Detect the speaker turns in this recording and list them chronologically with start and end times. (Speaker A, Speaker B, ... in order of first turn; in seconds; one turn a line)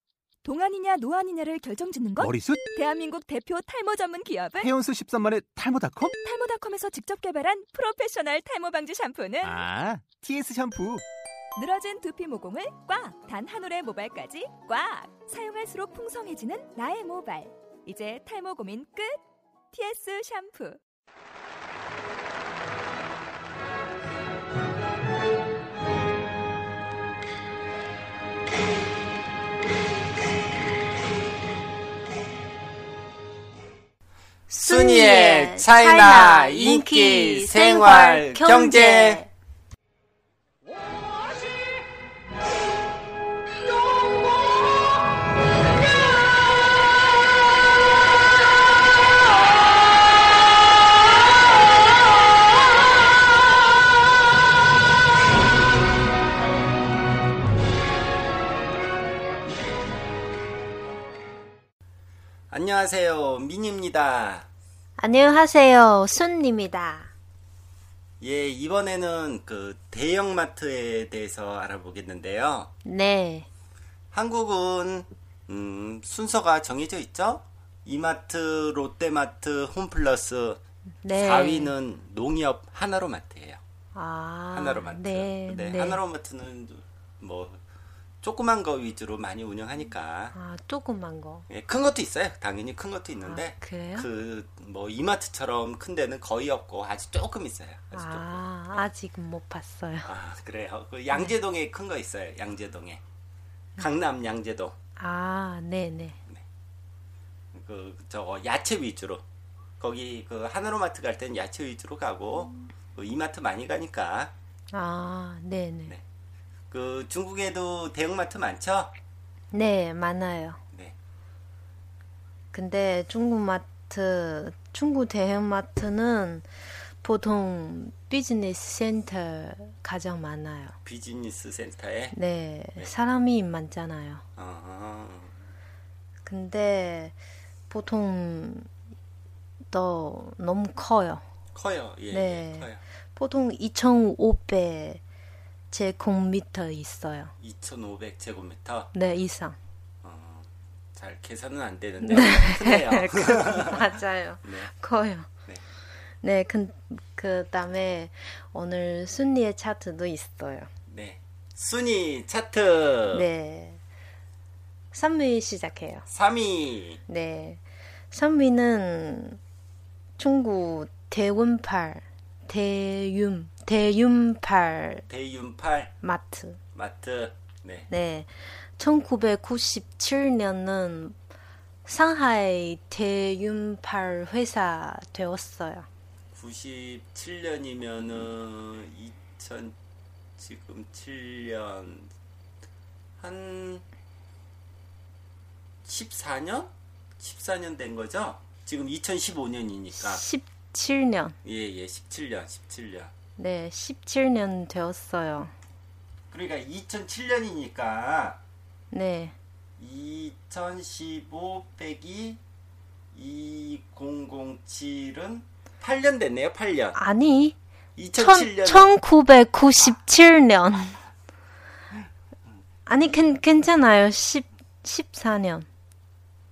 Speaker A: 0.4-4.7
Speaker B: 2.2-2.6
Speaker B: 4.6-6.1
Speaker A: 6.2-9.6
Speaker B: 9.4-11.0
Speaker A: 11.6-19.2
Speaker A: 19.7-20.8
Speaker C: 34.5-39.3
Speaker D: 34.6-39.2
Speaker D: 62.5-64.5
Speaker C: 65.0-67.1
Speaker D: 68.2-72.7
Speaker C: 72.8-73.5
Speaker D: 74.1-83.6
Speaker C: 81.0-81.7
Speaker C: 83.9-86.0
Speaker D: 84.5-87.6
Speaker D: 88.2-90.3
Speaker C: 90.3-91.5
Speaker D: 91.5-98.8
Speaker C: 93.2-94.1
Speaker C: 97.9-100.1
Speaker D: 100.0-103.0
Speaker D: 103.8-104.7
Speaker C: 105.0-106.2
Speaker D: 107.5-109.2
Speaker D: 109.8-114.3
Speaker C: 114.7-115.9
Speaker D: 116.7-118.9
Speaker C: 119.5-120.6
Speaker C: 122.5-126.5
Speaker C: 127.0-130.7
Speaker D: 130.8-132.2
Speaker C: 132.1-134.2
Speaker D: 134.3-135.3
Speaker C: 136.2-137.2
Speaker C: 137.7-138.7
Speaker C: 139.7-141.2
Speaker D: 141.5-142.8
Speaker C: 142.1-145.0
Speaker C: 145.7-147.3
Speaker D: 147.4-148.9
Speaker C: 148.9-149.6
Speaker D: 150.0-154.7
Speaker C: 152.0-155.3
Speaker C: 156.2-160.7
Speaker D: 160.9-163.2
Speaker C: 163.1-163.8
Speaker C: 164.9-166.1
Speaker D: 166.1-167.0
Speaker C: 167.1-169.4
Speaker C: 170.2-175.0
Speaker D: 175.1-175.9
Speaker C: 176.0-176.6
Speaker D: 176.7-177.9
Speaker C: 177.9-181.2
Speaker C: 181.8-185.9
Speaker D: 186.3-189.7
Speaker D: 190.4-192.1
Speaker D: 193.2-193.8
Speaker D: 195.8-200.2
Speaker C: 199.9-201.4
Speaker D: 201.4-203.1
Speaker C: 203.4-205.5
Speaker D: 206.3-208.4
Speaker C: 208.9-209.3
Speaker D: 209.8-212.4
Speaker D: 213.1-217.0
Speaker C: 216.9-217.6
Speaker D: 217.9-218.9
Speaker C: 218.2-221.0
Speaker C: 222.8-225.7